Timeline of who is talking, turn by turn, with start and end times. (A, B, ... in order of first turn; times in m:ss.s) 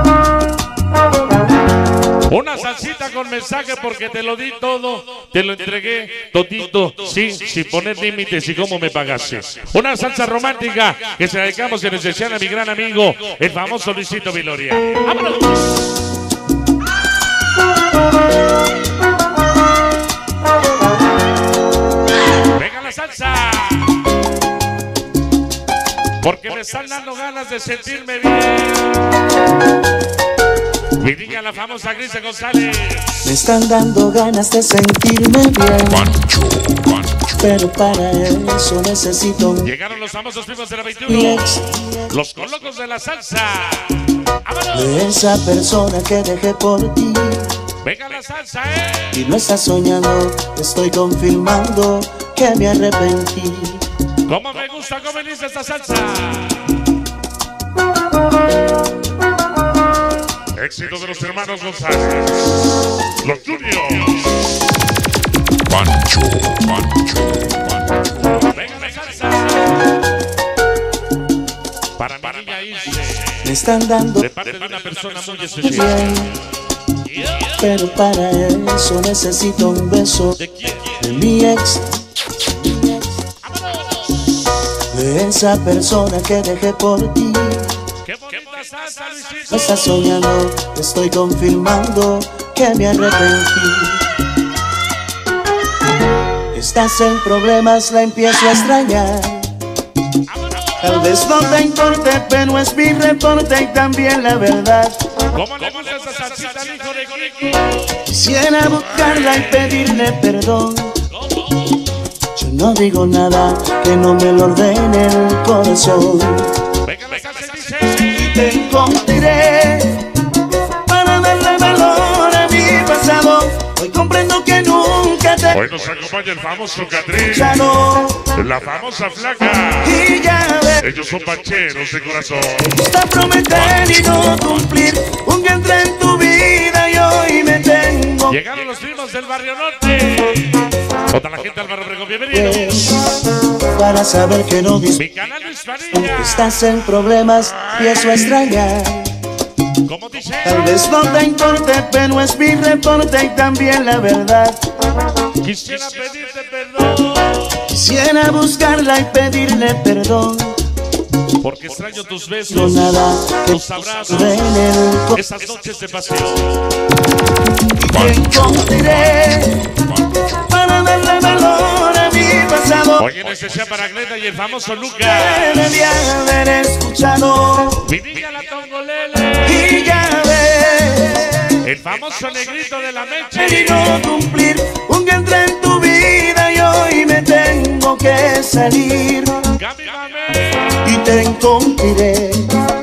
0:02.2-0:15.6 A
0:22.4-0:24.0 A
0:26.2-0:29.0 A
0:31.0-0:33.2 A
0:33.2-0:36.2 B
0:36.2-0:37.2 C
0:37.3-0:39.7 B
0:39.6-0:45.0 A
0:41.1-0:42.2 B
0:44.7-0:47.5 B
0:47.8-0:49.2 A
0:49.1-0:53.8 B
0:54.2-0:56.8 A
1:00.5-1:02.4 A
1:03.2-1:04.3 A
1:05.7-1:08.0 C
1:08.2-1:09.7 A
1:12.0-1:13.4 A
1:13.4-1:14.2 B
1:14.2-1:16.2 A
1:15.6-1:16.4 B
1:17.0-1:17.5 A
1:17.4-1:20.4 B
1:20.4-1:21.0 A
1:21.0-1:21.9 B
1:22.5-1:23.2 B
1:23.5-1:24.0 A
1:24.9-1:27.8 B
1:28.0-1:29.9 A
1:29.5-1:34.1 B
1:36.5-1:39.5 B
1:40.3-1:40.9 A
1:40.8-1:45.0 B
1:45.3-1:47.8 A
1:47.9-1:50.9 B
1:52.3-1:56.6 B
1:56.8-1:58.2 A
1:58.1-2:05.6 B
2:05.5-2:07.5 A
2:07.1-2:08.3 B
2:08.3-2:09.9 A
2:09.8-2:10.9 B
2:10.8-2:12.8 A
2:12.6-2:18.4 B
2:18.3-2:22.8 A
2:22.3-2:25.0 B
2:24.9-2:26.3 A
2:25.9-2:29.2 B
2:29.8-2:30.6 A
2:30.4-2:34.6 B
2:35.4-2:37.6 A
2:37.6-2:40.6 B
2:41.4-2:44.5 A
2:42.5-2:45.2 B
2:45.1-2:46.6 A
2:47.7-2:53.1 B
2:53.0-2:55.7 A
2:55.0-2:57.9 B
2:57.8-2:59.9 A
2:59.4-3:01.6 B
3:01.6-3:04.0 A
3:03.4-3:09.5 B
3:09.5-3:10.6 A
3:10.8-3:12.5 B